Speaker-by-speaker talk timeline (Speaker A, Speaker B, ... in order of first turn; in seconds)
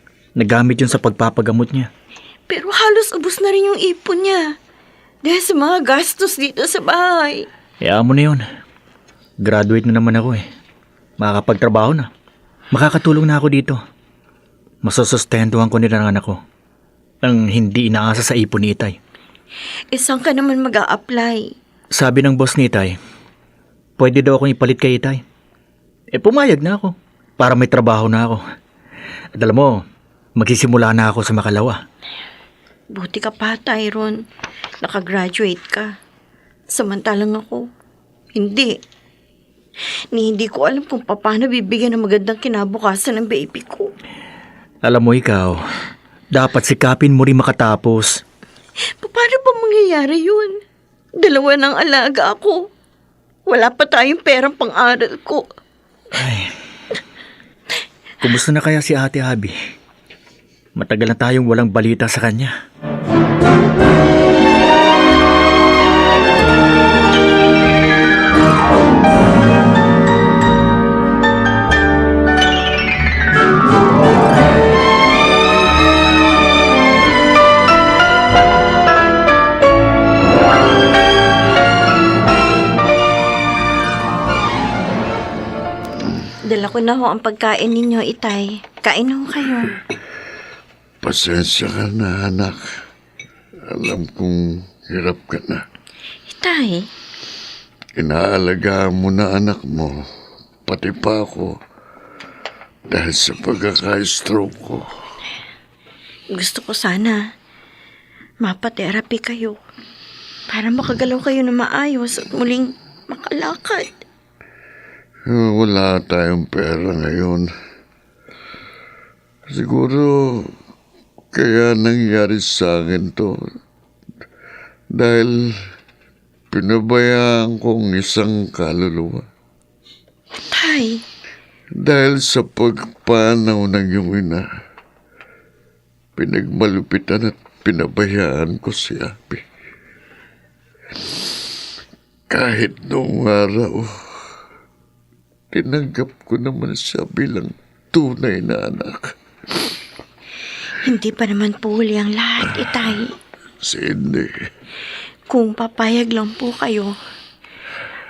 Speaker A: 0.3-1.9, 7.8-8.4, 9.4-10.4, 11.2-12.1, 12.7-13.8, 14.8-16.4, 17.2-18.9, 21.9-22.9, 24.0-25.2, 26.1-28.4, 29.4-29.8, 30.4-31.8, 44.8-45.6, 46.3-48.2, 56.1-56.5, 58.2-59.5, 60.8-62.5
Speaker B: 2.5-4.4, 5.2-7.5, 19.9-21.5, 32.9-34.2, 34.8-35.9, 36.7-37.7, 38.3-38.7, 40.1-43.9, 49.0-50.5, 51.2-52.6, 53.5-55.5, 86.4-89.7, 96.3-96.9, 106.3-107.2, 108.4-109.6, 110.5-113.9, 130.5-131.0, 150.8-153.1, 155.3-156.9
Speaker C: 91.0-92.6, 93.7-95.6, 98.0-99.9, 100.7-101.5, 102.9-104.9, 115.3-117.5, 119.5-120.5, 121.3-123.4, 125.0-125.3, 126.5-129.2, 131.8-134.4, 136.2-139.4, 142.3-143.8, 145.5-149.1, 153.6-154.3